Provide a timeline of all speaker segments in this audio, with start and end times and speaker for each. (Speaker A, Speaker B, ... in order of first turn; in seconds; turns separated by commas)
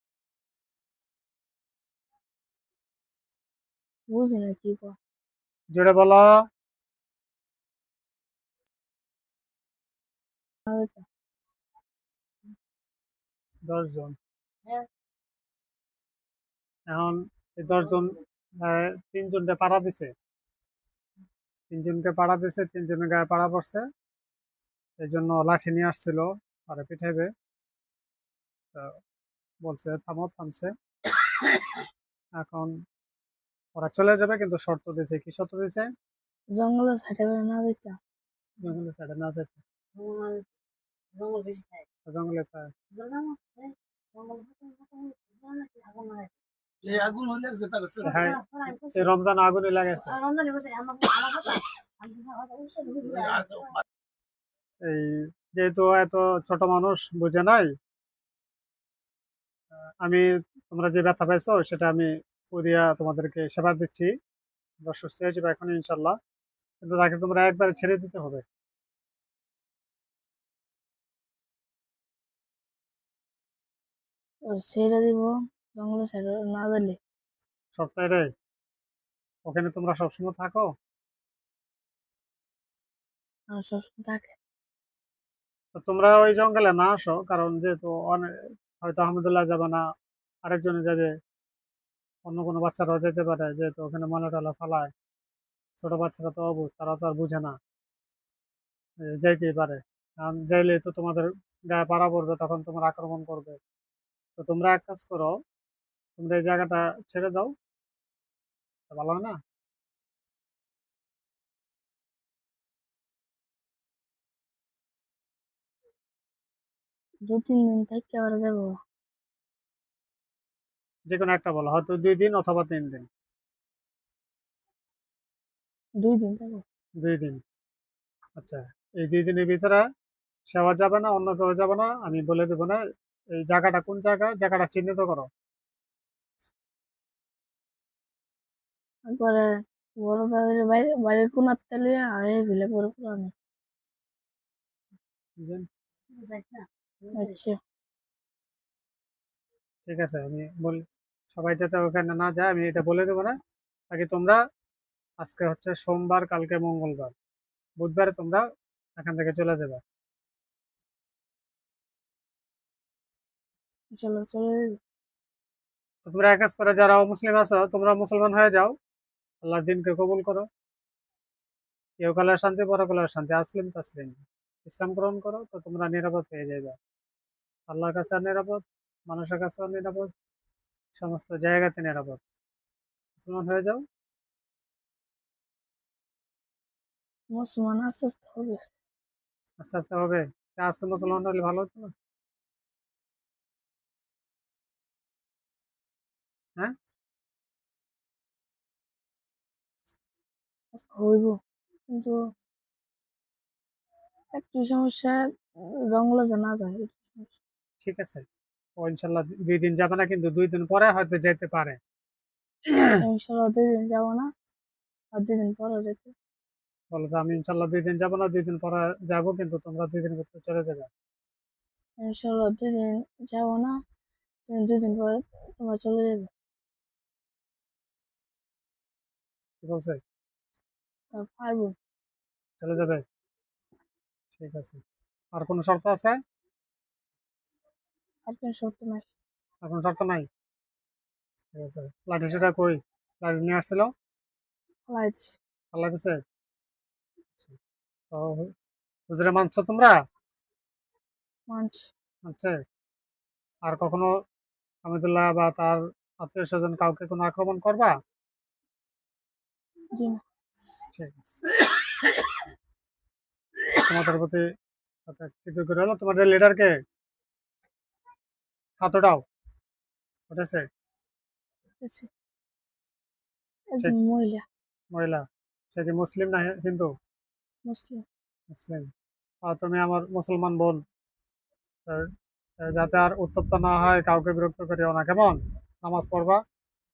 Speaker A: 4.1-5.0, Speaker B: 5.7-6.4, Speaker A: 10.7-11.1, Speaker B: 13.7-14.2, Speaker B: 16.9-20.1, Speaker B: 21.7-23.8, Speaker B: 25.0-27.3, Speaker B: 29.6-30.7, Speaker B: 32.4-32.7, Speaker B: 33.8-35.9, Speaker A: 36.5-38.0, Speaker B: 38.6-39.6, Speaker C: 40.0-40.4, Speaker C: 41.1-41.8, Speaker B: 42.1-42.7, Speaker C: 42.9-46.3, Speaker C: 46.9-47.4, Speaker B: 48.0-50.2, Speaker C: 48.2-49.0, Speaker C: 50.1-53.8, Speaker B: 54.9-57.7, Speaker B: 60.0-64.1, Speaker B: 64.8-66.2, Speaker B: 66.8-68.4, Speaker A: 74.5-77.0, Speaker B: 77.8-78.3, Speaker B: 79.5-80.7, Speaker A: 83.5-84.3, Speaker B: 85.7-89.8, Speaker B: 90.5-91.1, Speaker B: 92.2-94.9, Speaker B: 95.8-97.6, Speaker B: 99.1-103.6, Speaker B: 104.4-105.3, Speaker B: 106.2-107.5, Speaker B: 108.9-109.4, Speaker A: 117.2-118.8, Speaker B: 121.1-123.1, Speaker A: 126.0-126.6, Speaker B: 127.0-127.4, Speaker B: 128.4-129.8, Speaker B: 130.5-132.8, Speaker B: 133.3-135.3, Speaker A: 139.1-139.4, Speaker A: 140.0-143.3, Speaker B: 145.4-145.7, Speaker C: 146.1-147.1, Speaker A: 147.1-147.6, Speaker B: 149.8-153.3, Speaker B: 153.9-154.4, Speaker B: 155.2-157.1, Speaker B: 157.8-158.4, Speaker B: 159.0-159.8, Speaker A: 163.9-164.8, Speaker B: 166.0-168.7, Speaker B: 169.4-170.4, Speaker B: 172.0-176.8, Speaker B: 177.7-180.1, Speaker B: 181.0-182.2, Speaker B: 183.2-183.8, Speaker A: 187.3-188.7, Speaker B: 189.6-191.9, Speaker A: 200.7-201.3, Speaker A: 201.9-202.1, Speaker A: 204.3-205.2, Speaker A: 205.9-207.4, Speaker B: 207.8-208.2, Speaker B: 208.8-211.8, Speaker B: 212.7-212.9, Speaker A: 213.0-214.2, Speaker A: 215.1-216.1, Speaker B: 216.9-220.9, Speaker A: 222.0-223.7, Speaker A: 224.5-226.3, Speaker B: 229.6-230.0, Speaker A: 231.1-231.7, Speaker B: 232.6-233.0, Speaker B: 234.3-234.8, Speaker B: 235.3-236.2, Speaker A: 238.3-239.1, Speaker B: 239.6-240.3, Speaker B: 241.5-243.9, Speaker A: 244.9-245.4, Speaker B: 245.7-246.2, Speaker B: 248.1-248.5, Speaker B: 249.1-249.9, Speaker A: 251.5-251.9, Speaker B: 252.2-252.5, Speaker B: 253.6-254.1, Speaker B: 254.8-257.9, Speaker A: 259.9-260.2, Speaker B: 260.9-261.4, Speaker B: 263.7-264.4, Speaker B: 265.1-266.7, Speaker B: 268.8-269.2, Speaker B: 270.3-270.6, Speaker A: 271.8-272.1, Speaker A: 273.7-274.4, Speaker B: 274.9-276.9, Speaker A: 277.6-278.0, Speaker B: 278.5-278.9, Speaker B: 279.4-280.8, Speaker B: 282.6-286.4